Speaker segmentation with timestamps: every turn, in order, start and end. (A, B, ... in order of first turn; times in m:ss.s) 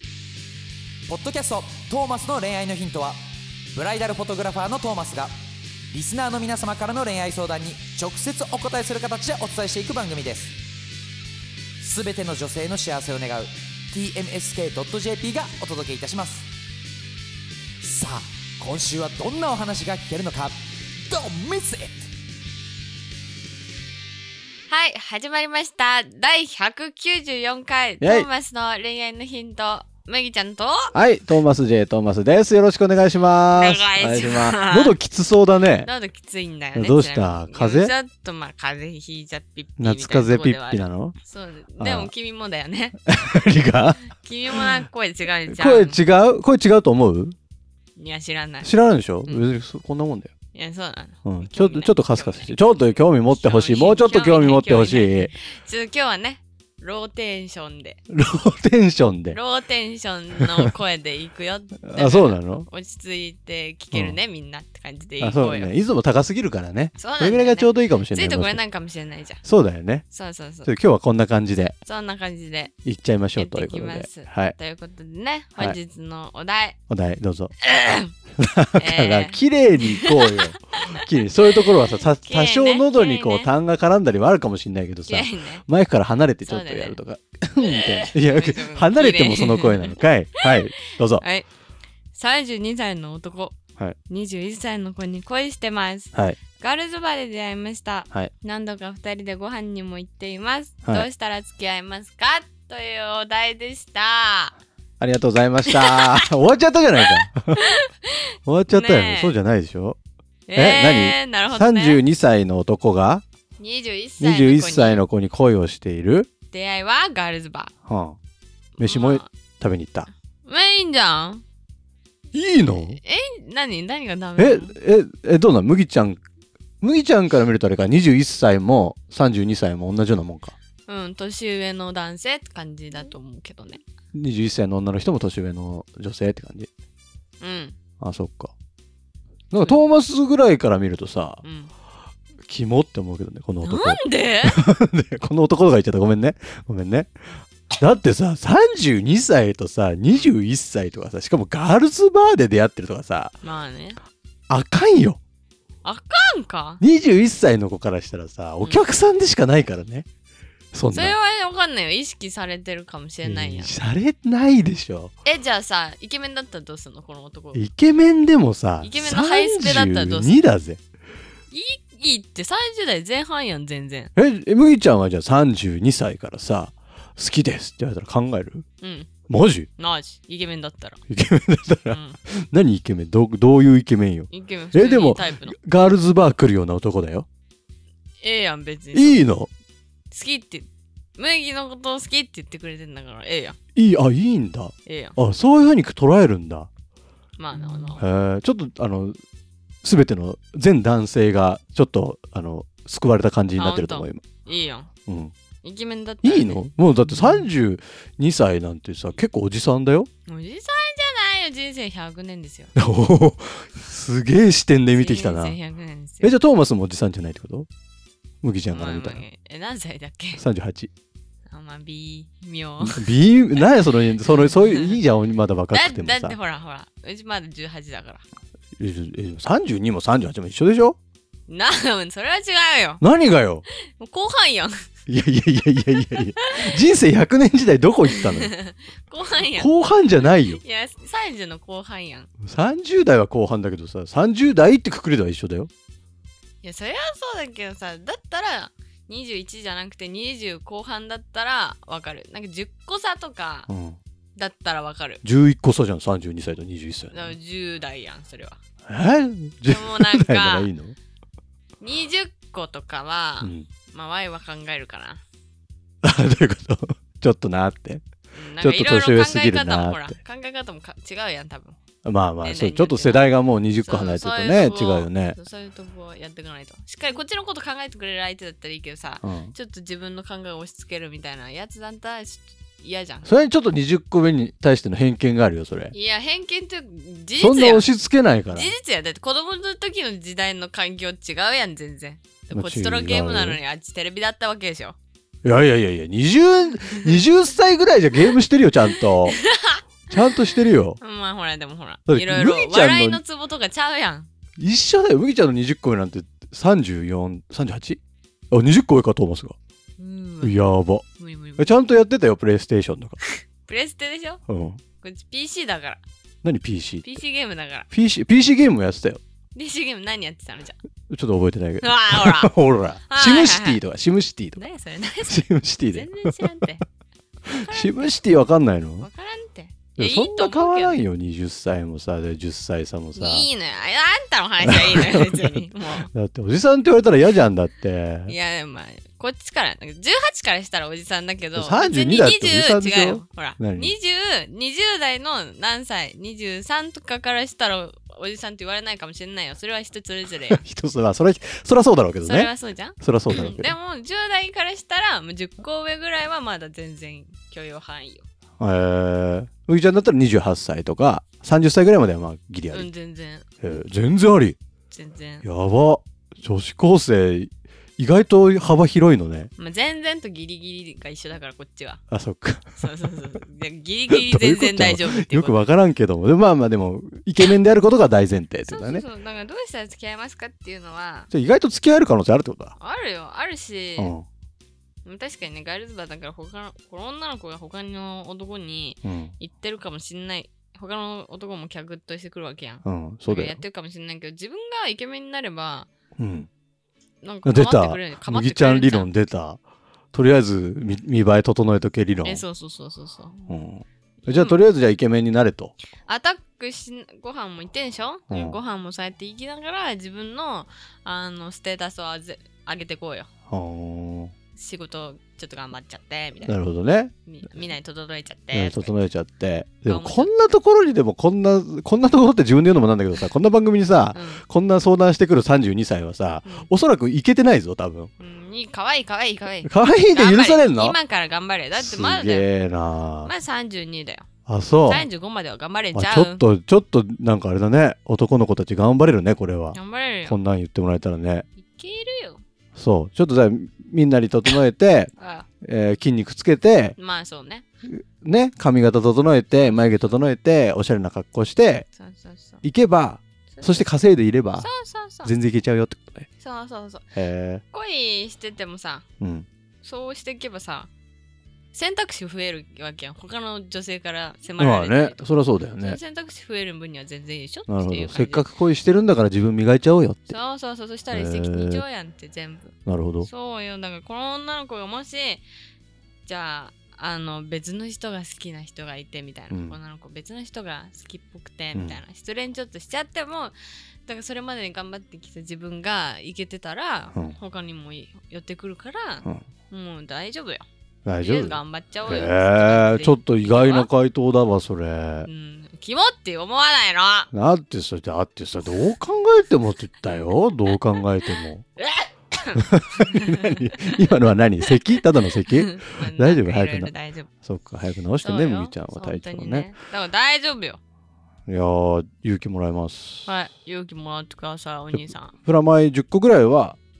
0:01.0-0:03.2 A
0:03.7-0:05.3 A
0:05.9-0:10.6 A
0:11.8-0:16.5 A
0:17.8-0:22.0 A
0:24.7-0:30.9 B
0:28.0-0:28.3 C
0:30.9-0:35.9 C
0:33.5-0:35.0 B
0:35.8-0:43.0 B
0:36.7-0:37.9 C
0:39.8-0:41.2 C
0:41.8-0:42.1 C
0:43.0-0:44.7 C
0:44.1-0:46.0 B
0:45.5-0:47.3 C
0:48.0-0:48.7 B
0:48.6-0:50.3 C
0:50.5-0:58.0 B
0:51.2-0:55.3 C
0:58.1-0:59.4 C
0:59.3-1:05.7 B
1:00.4-1:00.7 C
1:01.8-1:02.7 C
1:05.2-1:08.6 C
1:07.0-1:09.4 B
1:09.4-1:10.0 C
1:10.1-1:10.7 B
1:10.6-1:11.8 C
1:11.8-1:12.7 B
1:12.8-1:14.6 C
1:13.4-1:16.8 B
1:16.9-1:17.5 C
1:17.6-1:18.1 B
1:18.4-1:31.2 C
1:18.8-1:20.8 B
1:21.4-1:23.5 B
1:25.1-1:25.6 B
1:26.4-1:27.0 B
1:27.6-1:31.4 B
1:32.1-1:33.6 B
1:34.1-1:44.6 B
1:36.1-1:36.4 C
1:45.0-1:47.7 C
1:45.7-1:46.2 B
1:47.2-1:49.4 B
1:48.4-1:50.0 C
1:50.5-1:52.0 B
1:50.5-1:53.2 C
1:53.6-1:55.0 B
1:54.2-1:56.3 C
1:56.5-1:57.7 B
1:57.9-1:58.2 C
1:58.8-1:59.3 B
1:58.8-2:00.1 C
2:00.4-2:01.4 B
2:02.3-2:03.0 C
2:02.9-2:04.7 B
2:04.4-2:06.2 C
2:06.8-2:10.6 C
2:10.9-2:13.8 B
2:14.1-2:16.7 C
2:17.4-2:17.8 B
2:18.0-2:18.5 C
2:19.5-2:21.4 C
2:21.4-2:21.7 B
2:22.4-2:27.1 C
2:23.6-2:24.6 B
2:27.8-2:33.3 C
2:33.4-2:34.0 B
2:34.5-2:35.2 C
2:35.8-2:36.8 B
2:36.8-2:40.0 C
2:40.7-2:41.2 C
2:40.9-2:43.7 B
2:43.2-2:45.1 C
2:45.2-2:47.6 B
2:47.5-2:50.8 C
2:48.8-2:50.4 B
2:51.5-2:54.1 B
2:54.2-2:58.6 C
2:58.8-2:59.1 B
2:59.3-2:59.7 C
2:59.8-3:01.0 B
3:01.1-3:07.3 C
3:01.9-3:02.2 B
3:04.3-3:05.6 B
3:08.2-3:09.3 B
3:08.9-3:09.5 C
3:10.1-3:13.6 B
3:13.7-3:16.7 C
3:14.8-3:15.2 B
3:17.4-3:18.0 B
3:18.0-3:19.2 C
3:19.8-3:24.2 C
3:23.6-3:24.9 B
3:25.1-3:25.3 C
3:25.6-3:27.5 B
3:26.2-3:30.1 C
3:30.3-3:32.7 B
3:32.8-3:35.6 C
3:34.9-3:36.4 B
3:36.2-3:37.7 C
3:38.4-3:39.2 C
3:38.7-3:40.4 B
3:40.4-3:40.9 C
3:41.5-3:43.6 B
3:42.8-3:46.4 C
3:44.2-3:45.0 B
3:45.7-3:48.2 B
3:48.8-3:51.0 C
3:51.5-3:53.0 B
3:53.0-3:53.6 C
3:53.7-3:54.7 B
3:55.1-3:58.5 C
3:56.1-3:56.8 B
3:58.1-4:02.3 B
3:59.5-4:00.6 C
4:02.4-4:05.7 C
4:06.6-4:13.7 B
4:13.7-4:14.0 C
4:14.4-4:15.2 B
4:15.2-4:17.3 C
4:17.1-4:18.6 B
4:18.8-4:20.9 C
4:19.7-4:20.7 B
4:21.8-4:25.2 B
4:23.4-4:23.7 C
4:26.0-4:28.0 C
4:28.3-4:31.8 B
4:28.6-4:30.2 C
4:32.0-4:35.4 C
4:32.4-4:43.3 B
4:39.2-4:39.5 C
4:43.2-4:45.9 C
4:45.9-4:47.9 B
4:47.4-4:48.7 C
4:48.5-4:55.0 B
4:52.5-4:53.6 C
4:55.4-4:59.4 C
4:57.0-4:57.2 B
4:59.1-5:00.4 B
5:00.1-5:01.0 C
5:01.0-5:04.3 B
5:02.1-5:03.2 C
5:04.6-5:08.0 C
5:08.5-5:09.6 C
5:10.0-5:10.6 B
5:10.4-5:11.0 C
5:11.2-5:11.8 B
5:11.6-5:13.2 C
5:13.3-5:14.4 B
5:14.5-5:14.8 C
5:15.0-5:16.0 B
5:16.4-5:17.1 C
5:17.0-5:17.9 B
5:17.9-5:19.2 C
5:19.5-5:20.8 B
5:21.1-5:24.6 C
5:21.8-5:22.5 B
5:23.1-5:23.8 B
5:24.6-5:26.8 B
5:25.3-5:26.6 C
5:27.4-5:29.1 C
5:27.5-5:28.2 B
5:29.0-5:31.0 B
5:30.0-5:33.5 C
5:33.2-5:36.1 B
5:34.6-5:38.3 C
5:38.3-5:50.6 B
5:41.5-5:43.9 C
5:50.5-5:53.7 C
5:52.2-5:58.2 B
5:58.6-6:02.9 C
6:02.7-6:03.4 B
6:03.6-6:04.6 C
6:04.9-6:05.4 B
6:05.4-6:09.5 C
6:09.6-6:12.0 B
6:12.1-6:12.9 C
6:12.8-6:15.6 B
6:14.1-6:19.0 C
6:18.7-6:21.3 B
6:21.3-6:22.8 C
6:22.8-6:24.1 B
6:24.0-6:24.2 C
6:25.0-6:35.9 B
6:29.0-6:29.3 C
6:32.8-6:33.6 C
6:36.2-6:36.5 C
6:37.2-6:39.1 B
6:37.4-6:39.6 C
6:40.1-6:42.4 C
6:42.2-6:43.4 B
6:43.5-6:45.7 C
6:44.2-6:44.6 B
6:46.1-6:53.3 B
6:48.3-6:48.6 C
6:53.5-6:54.3 C
6:54.6-6:56.6 B
6:56.4-6:57.1 C
6:57.2-6:58.9 B
6:58.5-7:08.1 C
6:59.8-7:00.3 B
7:04.1-7:04.4 B
7:08.2-7:12.5 B
7:09.6-7:11.0 C
7:11.7-7:13.3 C
7:13.2-7:14.3 B
7:14.4-7:15.1 C
7:14.8-7:16.4 B
7:15.9-7:21.4 C
7:19.7-7:20.4 B
7:21.6-7:22.4 B
7:22.8-7:25.1 C
7:25.2-7:25.5 B
7:25.6-7:27.0 C
7:27.0-7:27.6 B
7:27.8-7:31.8 C
7:29.7-7:30.2 B
7:32.0-7:32.6 B
7:32.6-7:34.7 C
7:33.5-7:33.9 B
7:34.6-7:35.3 B
7:35.2-7:36.3 C
7:36.4-7:37.1 B
7:37.1-7:37.6 C
7:37.7-7:39.0 B
7:39.2-7:39.5 C
7:39.8-7:40.9 B
7:41.7-7:45.2 B
7:44.6-7:46.0 C
7:45.8-7:48.5 B
7:47.7-7:50.3 C
7:50.3-7:55.4 B
7:51.1-7:51.8 C
7:52.8-7:53.3 C
7:56.2-8:10.6 B
7:59.5-7:59.8 C
8:11.0-8:15.3 C
8:11.2-8:13.9 B
8:15.2-8:17.3 B
8:17.3-8:21.6 C
8:20.7-8:24.0 B
8:22.5-8:26.9 C
8:24.6-8:27.3 B
8:27.4-8:29.7 C
8:28.2-8:30.8 B
8:31.5-8:33.3 C
8:33.2-8:35.3 B
8:34.9-8:36.8 C